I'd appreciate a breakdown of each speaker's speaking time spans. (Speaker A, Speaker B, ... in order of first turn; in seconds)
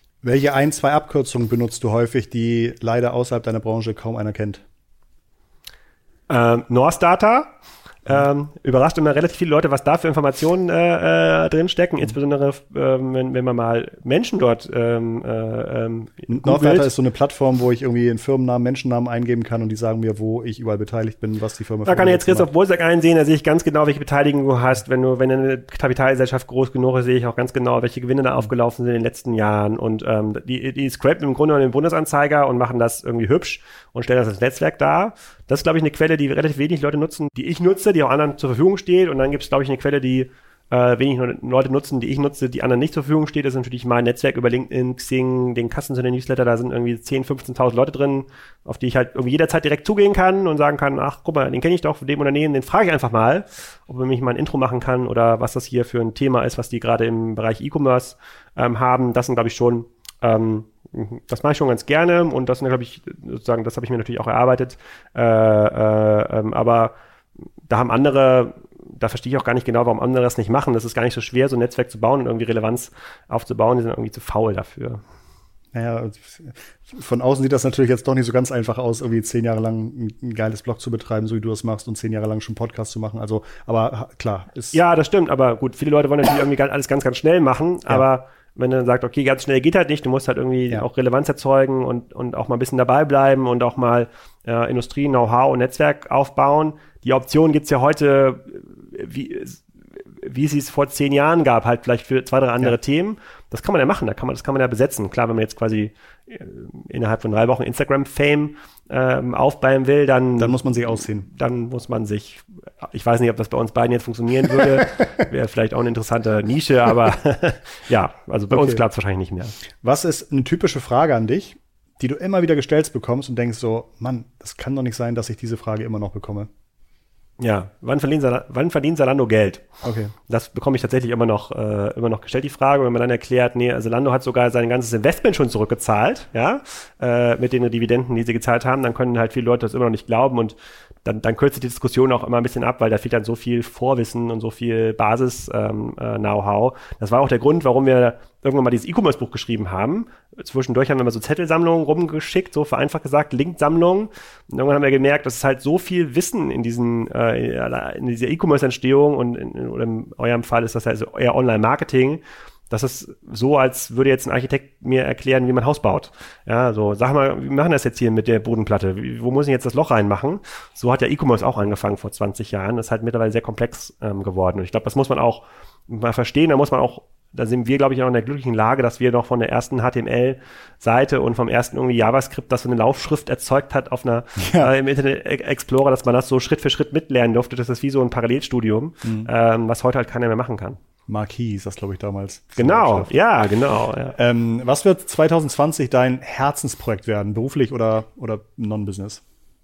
Speaker A: 0.2-4.6, 16.3-22.5, 75.7-84.8, 110.4-111.3, 118.5-118.8, 119.8-126.5, 129.8-130.1, 184.4-184.7, 189.0-189.3, 191.1-193.1, 194.2-199.2
Speaker B: 6.3-7.5, 8.0-16.9, 21.9-66.9, 67.7-75.0, 84.7-99.6, 100.2-119.5, 127.4-129.6, 130.3-190.8, 192.6-194.2